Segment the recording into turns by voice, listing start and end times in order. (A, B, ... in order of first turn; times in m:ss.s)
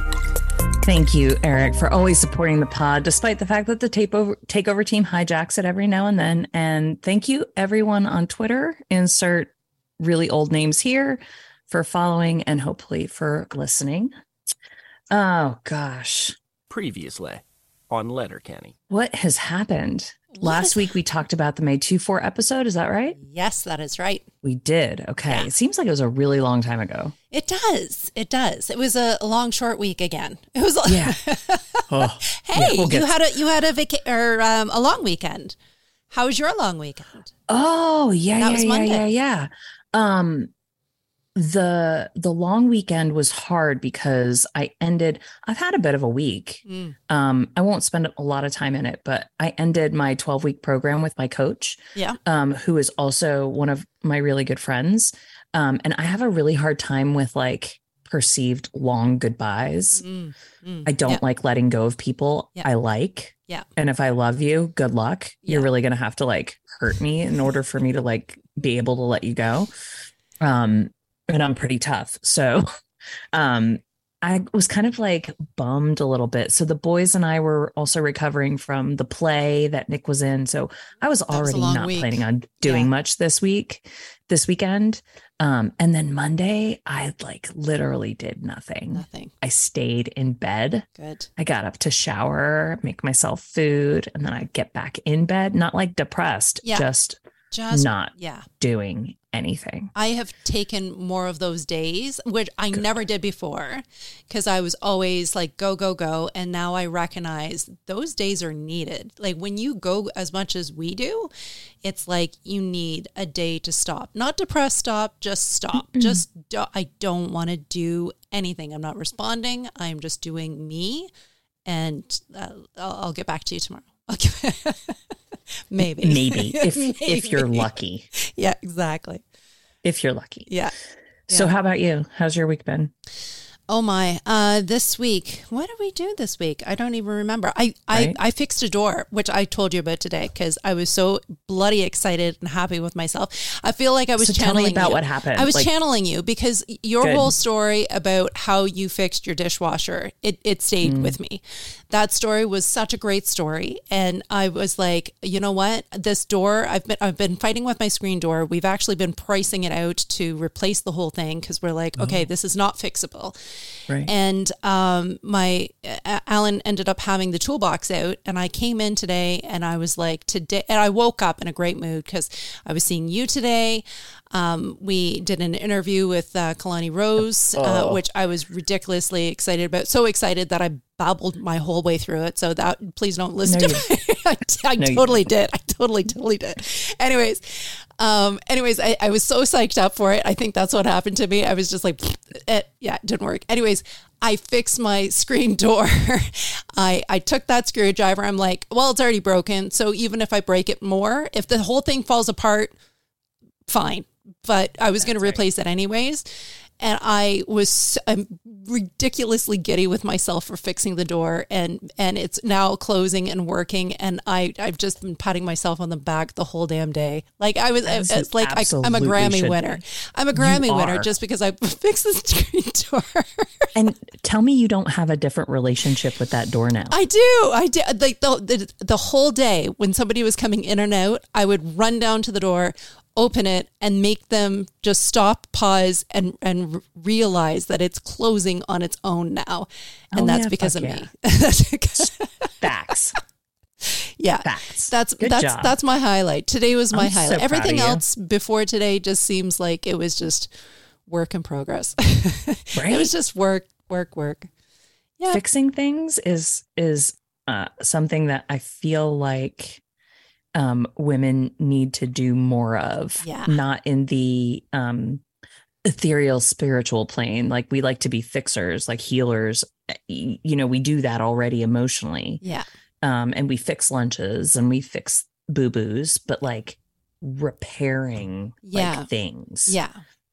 0:00.8-0:14.1 A
0:15.1-0:16.4 A
0:16.7-0:18.7 B
0:18.9-0:23.2 A
0:20.3-0:20.8 C
0:23.2-0:24.2 C
0:24.4-0:27.1 A
0:27.3-0:35.5 C
0:30.8-0:31.2 A
0:31.9-0:33.1 A
0:36.1-0:37.3 C
0:37.5-0:40.5 A
0:38.4-0:39.0 C
0:41.3-1:00.0 A
0:46.6-0:47.0 C
1:00.0-1:01.2 C
1:00.8-1:09.7 A
1:10.4-1:12.6 A
1:13.3-1:37.2 A
1:21.3-1:22.9 C
1:28.9-1:29.3 C
1:31.0-1:31.3 C
1:36.6-1:36.9 C
1:37.5-1:38.4 C
1:37.7-1:39.9 A
1:39.9-1:51.3 C
1:51.8-2:01.1 C
1:55.9-1:56.2 A
2:01.6-2:05.1 C
2:05.7-2:09.2 C
2:05.8-2:08.1 A
2:09.8-2:10.5 A
2:10.5-2:10.7 C
2:11.3-2:12.9 A
2:13.7-2:43.4 C
2:17.9-2:18.2 A
2:24.2-2:25.7 A
2:27.0-2:27.3 A
2:30.8-2:31.2 A
2:42.0-2:42.2 A
2:44.0-3:22.7 C
2:57.5-2:58.0 A
3:03.4-3:03.8 A
3:04.8-3:05.3 A
3:23.7-3:26.2 C
3:25.0-3:25.4 A
3:26.8-3:43.7 C
3:37.8-3:39.8 A
3:40.3-3:41.1 A
3:43.7-3:46.9 A
3:46.9-4:02.5 C
4:00.1-4:01.1 A
4:02.6-4:03.2 A
4:03.8-4:10.5 C
4:04.4-4:05.8 A
4:06.9-4:08.0 A
4:11.0-4:14.5 C
4:12.7-4:13.1 A
4:15.3-4:19.8 A
4:20.5-4:25.2 A
4:23.2-4:23.6 C
4:25.8-4:32.4 A
4:33.0-4:39.8 A
4:38.6-4:39.1 C
4:39.7-4:40.0 C